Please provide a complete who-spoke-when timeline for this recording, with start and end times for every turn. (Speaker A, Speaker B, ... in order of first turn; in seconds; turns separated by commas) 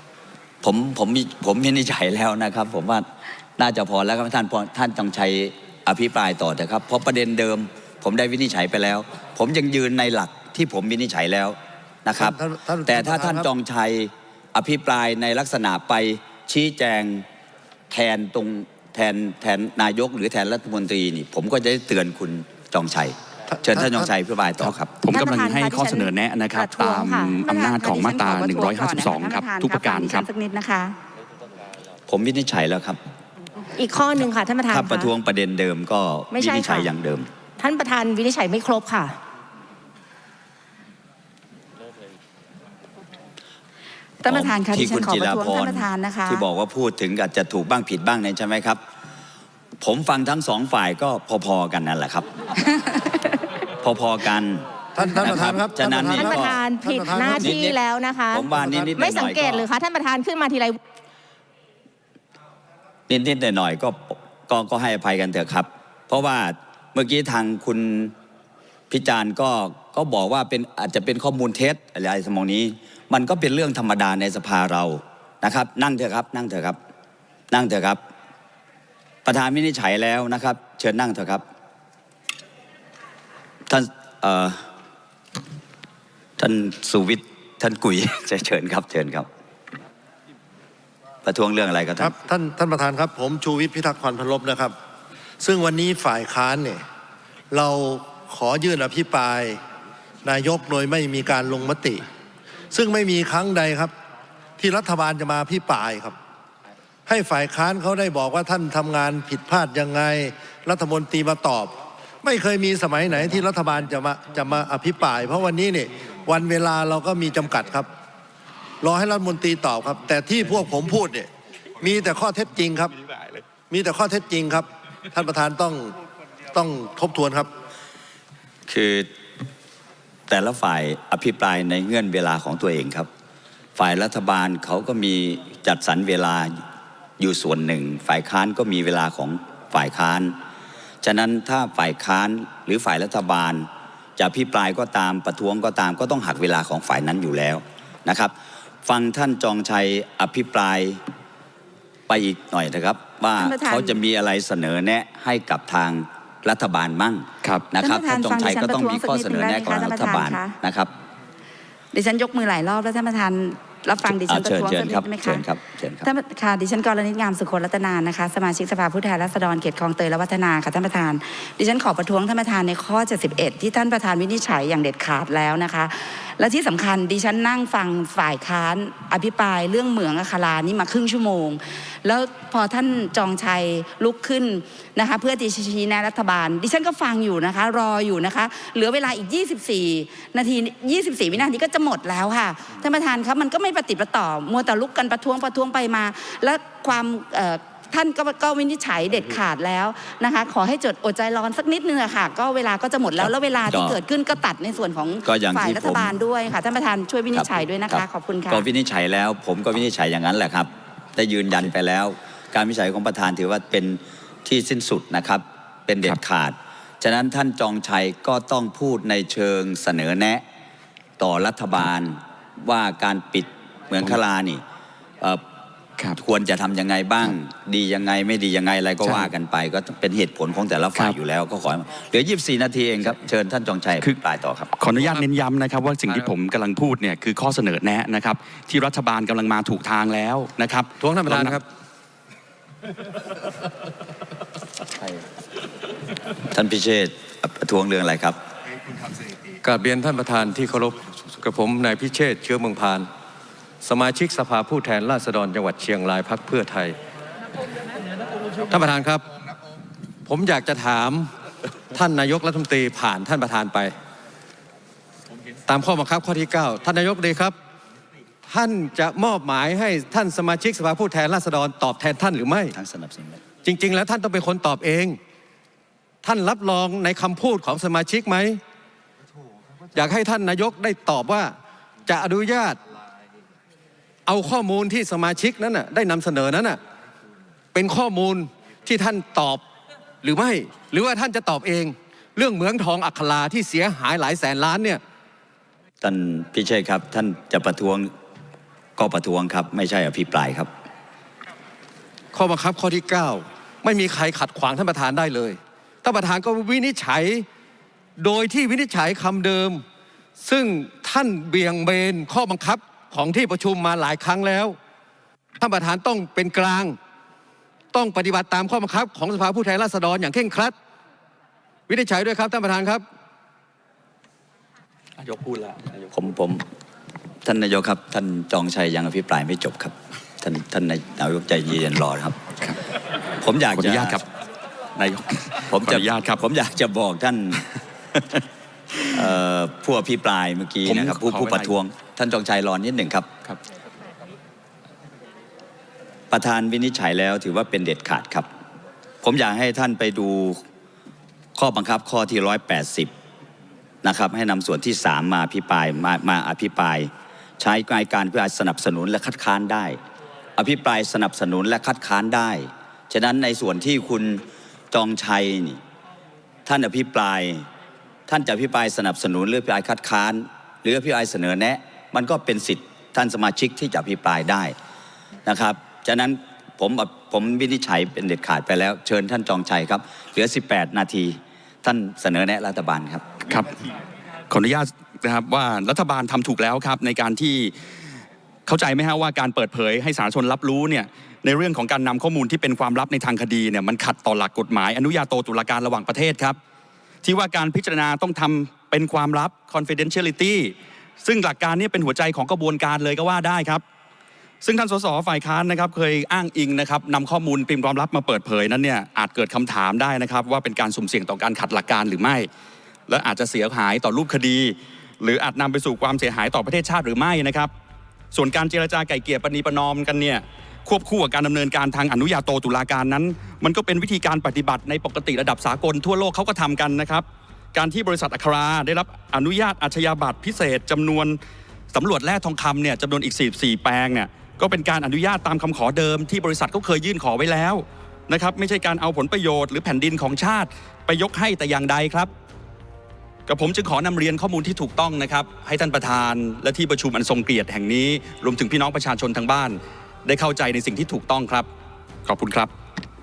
Speaker A: 0.6-17.2, Speaker B: 12.2-13.5, Speaker A: 17.9-24.9, Speaker B: 23.5-24.1, Speaker C: 25.0-30.2, Speaker D: 25.1-27.4, Speaker E: 27.4-30.9, Speaker A: 32.1-33.0, Speaker D: 33.8-35.1, Speaker A: 34.7-37.3, Speaker D: 36.3-36.9, Speaker D: 37.6-39.1, Speaker E: 44.2-46.5, Speaker A: 44.2-48.8, Speaker A: 49.8-52.3, Speaker E: 52.9-53.1, Speaker A: 53.8-56.6, Speaker B: 54.9-57.7, Speaker D: 56.1-60.8, Speaker A: 57.4-57.8, Speaker A: 58.3-59.7, Speaker B: 58.5-58.9, Speaker A: 63.1-68.1, Speaker A: 68.9-76.8, Speaker A: 77.5-78.0, Speaker A: 79.2-81.4, Speaker A: 83.7-84.7, Speaker A: 86.4-89.3, Speaker A: 91.2-92.1, Speaker B: 92.0-94.7, Speaker B: 95.4-96.8, Speaker B: 97.5-99.6, Speaker B: 100.2-102.0, Speaker B: 102.7-103.9, Speaker B: 104.6-106.1, Speaker B: 107.0-117.9, Speaker B: 118.8-122.9, Speaker B: 123.7-125.9, Speaker B: 126.5-127.5, Speaker A: 128.7-129.1, Speaker A: 130.3-133.1, Speaker A: 133.8-136.6, Speaker A: 137.2-140.4, Speaker A: 141.0-148.3, Speaker A: 148.8-151.0, Speaker A: 152.1-160.9, Speaker E: 153.3-154.0, Speaker E: 157.8-160.6, Speaker E: 161.9-165.4, Speaker A: 164.1-166.1, Speaker E: 166.0-208.6, Speaker A: 203.2-204.0, Speaker A: 205.2-206.1, Speaker A: 207.3-220.4, Speaker A: 221.2-224.6, Speaker A: 226.2-234.7, Speaker C: 234.8-241.6, Speaker F: 241.0-241.6, Speaker A: 246.5-248.4, Speaker F: 249.6-253.1, Speaker F: 253.8-256.9, Speaker F: 258.7-259.2, Speaker F: 260.2-261.3, Speaker F: 261.9-263.9, Speaker F: 265.7-267.6, Speaker F: 268.5-272.7, Speaker A: 272.7-273.4, Speaker F: 273.6-275.2, Speaker F: 276.2-278.6, Speaker F: 279.9-281.5, Speaker F: 282.1-282.8, Speaker F: 284.2-286.8, Speaker F: 287.7-289.6, Speaker F: 290.2-295.0, Speaker A: 296.0-298.1, Speaker A: 299.0-300.7, Speaker F: 302.3-307.5, Speaker F: 308.2-309.8, Speaker F: 310.4-314.8, Speaker F: 315.6-317.0, Speaker F: 317.9-320.7, Speaker F: 321.9-323.0, Speaker C: 325.2-325.9, Speaker A: 326.1-326.6, Speaker A: 327.4-332.4, Speaker A: 333.4-334.2, Speaker C: 333.7-334.2, Speaker C: 334.9-336.4, Speaker A: 335.7-338.4, Speaker A: 339.0-343.3, Speaker C: 340.9-341.7, Speaker A: 346.3-348.5, Speaker A: 349.2-350.6, Speaker A: 351.6-353.1, Speaker A: 354.0-360.0, Speaker A: 360.6-365.8, Speaker A: 366.6-367.7, Speaker A: 368.3-374.8, Speaker A: 375.4-383.2, Speaker C: 383.5-383.9, Speaker C: 384.5-387.7, Speaker C: 388.7-396.6, Speaker C: 397.2-403.8, Speaker C: 404.6-412.5, Speaker C: 413.1-417.7, Speaker C: 418.3-431.4, Speaker C: 431.9-442.3, Speaker C: 443.5-451.7, Speaker C: 452.2-452.7